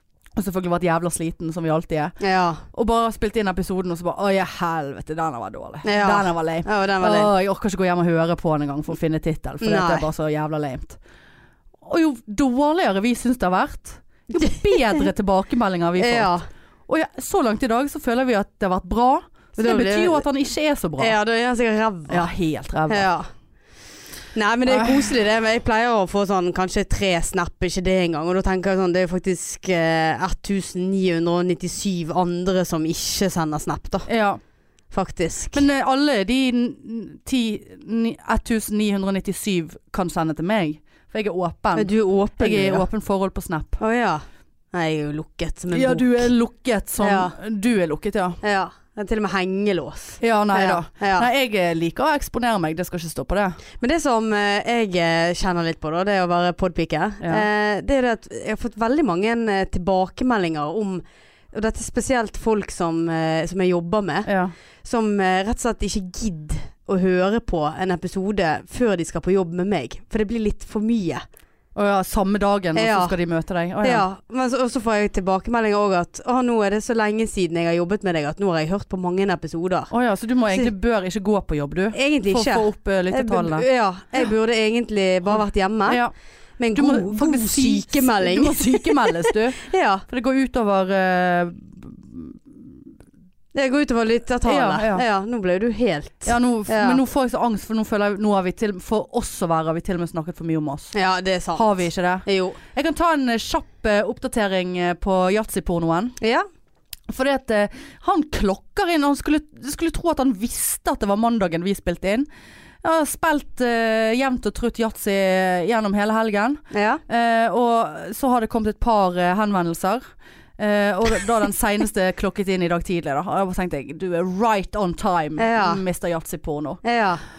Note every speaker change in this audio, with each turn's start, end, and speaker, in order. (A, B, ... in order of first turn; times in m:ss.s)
0:00.4-0:02.2 A
0:02.2-0:02.6 B
0:02.7-0:11.0 A
0:05.8-0:07.3 B
0:09.6-0:10.0 B
0:11.8-0:16.3 A
0:14.4-0:14.7 B
0:16.0-0:16.5 B
0:16.9-0:21.2 A
0:19.6-0:20.2 B
0:21.0-0:22.3 B
0:22.1-0:23.1 A
0:22.9-0:23.3 B
0:24.3-0:34.1 B
0:24.7-0:25.1 A
0:34.1-0:34.4 A
0:34.9-0:35.6 B
0:35.5-0:43.8 A
0:41.7-0:42.9 B
0:43.8-0:46.3 B
0:45.7-0:48.4 A
0:47.0-0:47.3 B
0:48.4-0:51.3 B
0:50.2-0:53.6 A
0:53.8-1:04.3 B
0:57.2-0:57.4 A
1:04.2-1:04.5 A
1:04.8-1:11.2 B
1:11.7-1:14.0 A
1:12.7-1:13.1 B
1:13.8-1:19.9 B
1:19.9-1:23.6 A
1:21.9-1:26.0 B
1:25.9-1:26.1 A
1:26.6-1:30.0 B
1:26.7-1:32.6 A
1:33.5-1:37.0 B
1:34.4-1:35.0 A
1:36.2-1:40.9 A
1:40.9-1:42.6 B
1:41.5-1:46.2 A
1:46.2-1:46.4 B
1:47.1-1:52.3 A
1:52.8-2:00.0 A
1:56.7-1:57.0 B
2:00.6-2:06.8 A
2:05.4-2:05.8 B
2:06.8-2:07.2 B